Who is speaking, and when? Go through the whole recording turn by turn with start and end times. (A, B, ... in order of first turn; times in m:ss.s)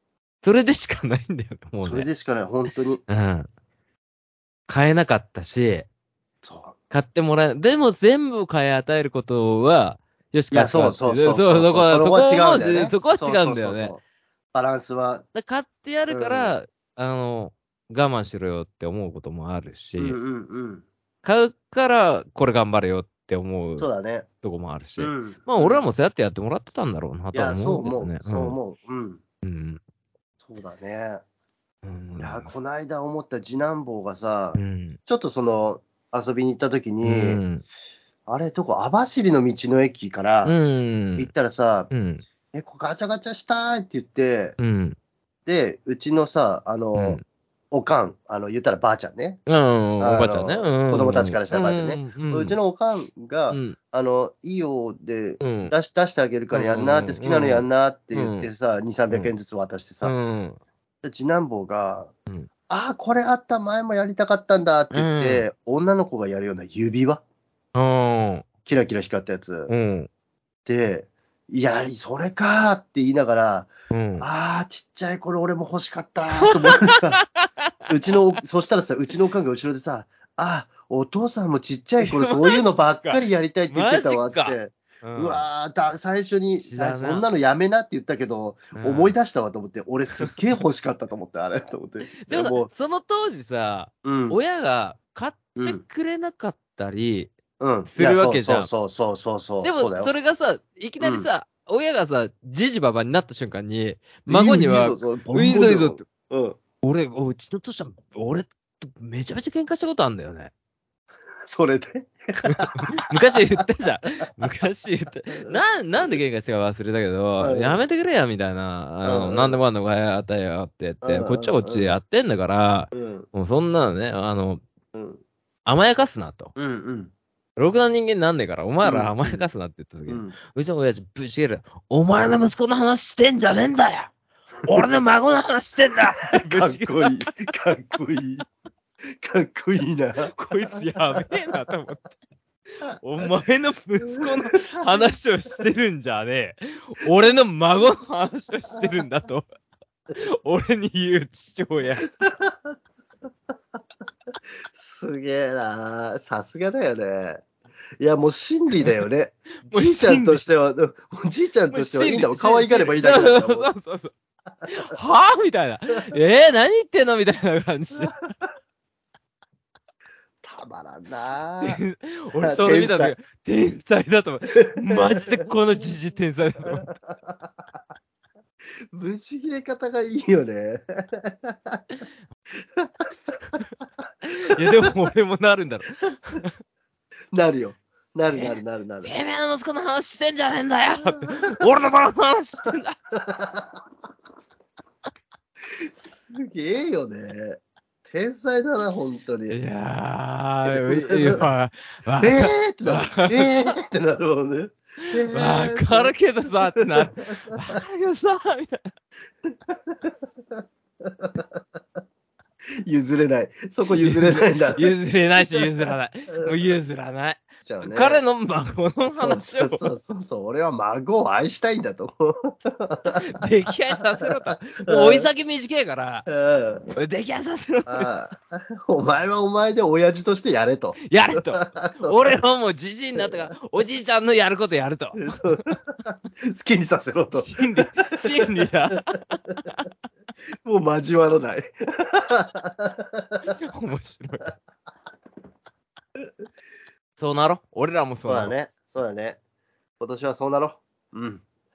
0:00.4-0:02.1 A
0:01.8-0:03.0 B
0:03.1-0:03.5 A
0:04.7-0:05.9 A
0:06.4-0:06.8 B
0:06.9-0:14.0 A
0:10.5-0:14.0 B
0:14.5-0:15.2 B
0:15.3-0:20.2 A
0:16.1-0:16.6 B
0:20.0-0:20.8 B
0:21.2-0:23.9 A
0:23.8-0:24.3 B
0:24.4-0:28.6 A
0:25.0-0:25.9 B
0:27.3-0:29.2 B
0:29.4-0:29.8 A
0:30.4-0:31.2 B
0:31.8-0:32.6 A
0:32.2-0:37.4 B
0:34.6-0:35.0 A
0:37.0-0:37.6 A
0:38.3-0:40.6 B
0:40.4-0:41.3 A
0:41.2-0:41.9 B
0:41.9-0:42.2 A
0:42.5-0:44.6 B
0:44.6-0:45.0 A
0:45.5-0:47.2 B
0:47.0-0:47.2 A
0:47.7-0:49.4 B
0:49.5-0:52.6 A
0:50.0-1:00.1 B
0:53.5-0:53.8 A
0:55.4-0:55.7 A
0:56.5-0:58.5 A
1:00.0-1:00.6 A
1:01.0-1:02.1 B
1:02.7-1:07.2 B
1:04.9-1:05.5 A
1:07.8-1:08.5 A
1:08.7-1:09.7 B
1:09.7-1:10.1 A
1:10.7-1:17.2 B
1:13.9-1:14.3 A
1:16.4-1:17.5 A
1:17.9-1:32.7 B
1:22.0-1:25.5 A
1:26.6-1:27.3 A
1:28.8-1:29.2 A
1:32.2-1:37.3 A
1:34.0-1:34.4 B
1:35.6-1:35.8 B
1:37.6-1:40.1 B
1:37.9-1:38.7 A
1:39.6-1:46.1 A
1:41.0-1:41.3 B
1:44.3-1:46.6 B
1:46.8-1:50.5 A
1:51.5-1:52.9 B
1:52.4-2:04.6 A
1:55.3-1:55.6 B
1:57.4-1:57.8 B
1:59.0-1:59.6 B
2:01.0-2:02.0 B
2:02.9-2:03.3 B
2:04.9-2:05.2 B
2:05.7-2:06.5 A
2:06.6-2:07.1 B
2:07.6-2:14.1 A
2:08.8-2:09.5 B
2:10.1-2:10.4 B
2:14.6-2:17.3 A
2:16.3-2:18.4 B
2:19.2-2:21.2 B
2:20.3-2:22.1 A
2:23.0-2:29.5 A
2:24.2-2:24.6 B
2:30.1-2:32.0 A
2:32.2-2:32.7 B
2:34.7-2:37.4 B
2:38.0-2:43.7 B
2:39.7-2:40.5 A
2:41.7-2:44.1 A
2:44.7-2:48.2 A
2:50.4-2:51.8 B
2:51.6-2:57.0 A
2:52.4-2:53.1 B
2:54.5-2:55.3 B
2:56.9-2:57.5 B
2:58.9-3:01.8 B
3:02.8-3:03.1 B
3:04.2-3:06.5 A
3:07.3-3:09.1 B
3:08.3-3:13.0 A
3:13.2-3:13.7 B
3:15.9-3:19.6 B
3:19.5-3:23.6 A
3:20.7-3:21.4 B
3:22.2-3:26.1 B
3:25.0-3:28.9 A
3:26.8-3:27.2 B
3:29.7-3:30.1 B
3:31.1-3:31.5 B
3:32.8-3:36.6 B
3:33.9-3:39.9 A
3:37.7-3:38.2 B
3:39.1-3:43.2 B
3:43.2-3:46.3 A
3:44.7-3:45.3 B
3:46.3-3:46.9 B
3:47.0-3:48.1 A
3:47.9-3:52.4 B
3:51.0-3:55.8 A
3:53.2-3:53.5 B
3:55.2-3:58.6 B
3:57.3-3:59.9 A
4:00.6-4:03.6 B
4:03.5-4:04.6 A
4:07.2-4:08.5 A
4:08.3-4:09.4 B
4:10.0-4:11.4 B